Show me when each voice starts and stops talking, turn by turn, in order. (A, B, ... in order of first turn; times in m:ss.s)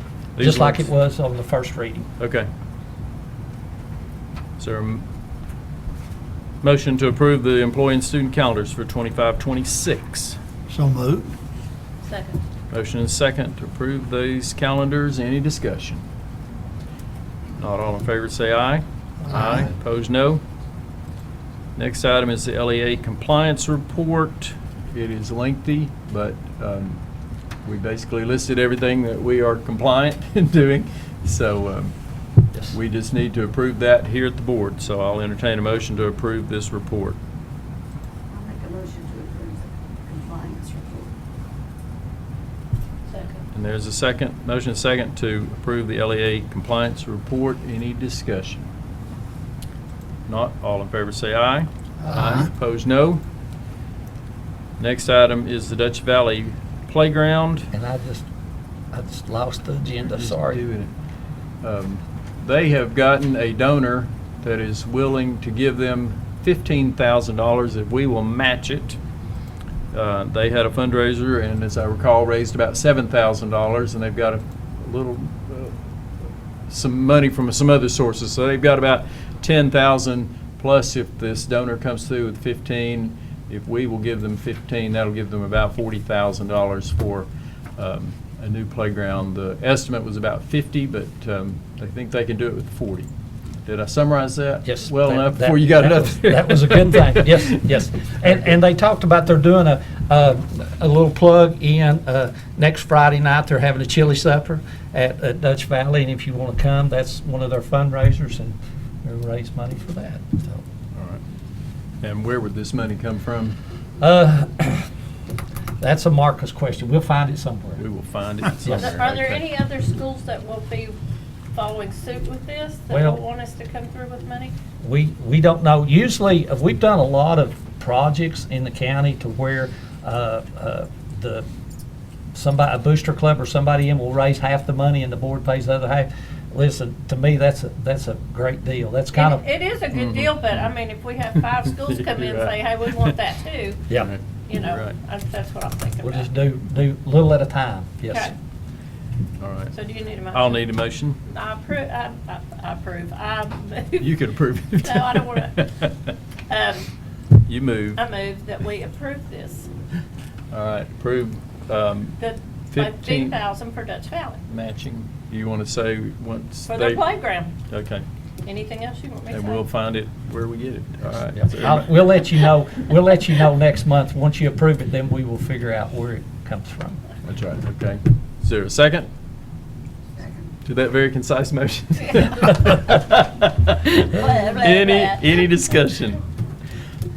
0:00.4-0:00.9 A
0:00.4-0:02.1 B
0:02.2-0:02.5 A
0:04.6-0:05.0 A
0:06.6-0:10.4 A
0:12.0-0:12.4 C
0:12.7-0:16.0 A
0:17.6-0:20.4 A
0:21.8-0:27.0 A
0:27.6-0:32.0 A
0:32.7-0:37.2 A
0:38.3-0:41.1 D
0:43.1-0:43.4 C
0:43.5-0:48.7 A
0:50.3-0:53.2 A
0:54.8-0:57.7 A
0:57.7-0:58.3 B
0:58.9-1:00.6 B
1:00.1-1:00.9 A
1:01.6-1:09.0 A
1:09.9-1:15.8 A
1:16.7-1:33.1 A
1:33.6-1:37.6 A
1:34.7-1:50.6 B
1:51.0-1:51.2 A
1:52.0-1:53.6 A
1:54.0-1:54.9 B
1:55.8-1:57.8 B
1:57.8-1:59.5 A
1:58.6-1:59.0 B
1:58.8-2:01.0 C
2:01.5-2:04.5 C
2:02.9-2:03.2 B
2:04.8-2:11.5 B
2:12.3-2:19.4 B
2:19.1-2:23.9 C
2:19.9-2:20.7 A
2:21.8-2:23.1 A
2:24.0-2:25.0 A
2:24.5-2:26.3 C
2:26.0-2:28.3 B
2:28.1-2:28.4 C
2:29.4-2:29.7 A
2:29.7-2:30.7 C
2:30.3-2:31.2 A
2:31.3-2:34.2 C
2:34.0-2:36.1 A
2:34.8-2:35.7 C
2:36.5-2:36.9 C
2:37.5-2:38.0 A
2:38.0-2:39.7 C
2:40.5-2:42.2 A
2:42.2-2:44.4 C
2:42.7-2:43.4 A
2:44.5-2:47.0 A
2:46.7-2:47.6 C
2:47.7-2:48.0 A
2:48.4-2:49.6 C
2:49.3-2:52.4 A
2:51.4-2:57.0 B
2:57.2-2:59.1 A
3:00.2-3:00.4 D
3:00.6-3:06.2 A
3:04.0-3:05.5 C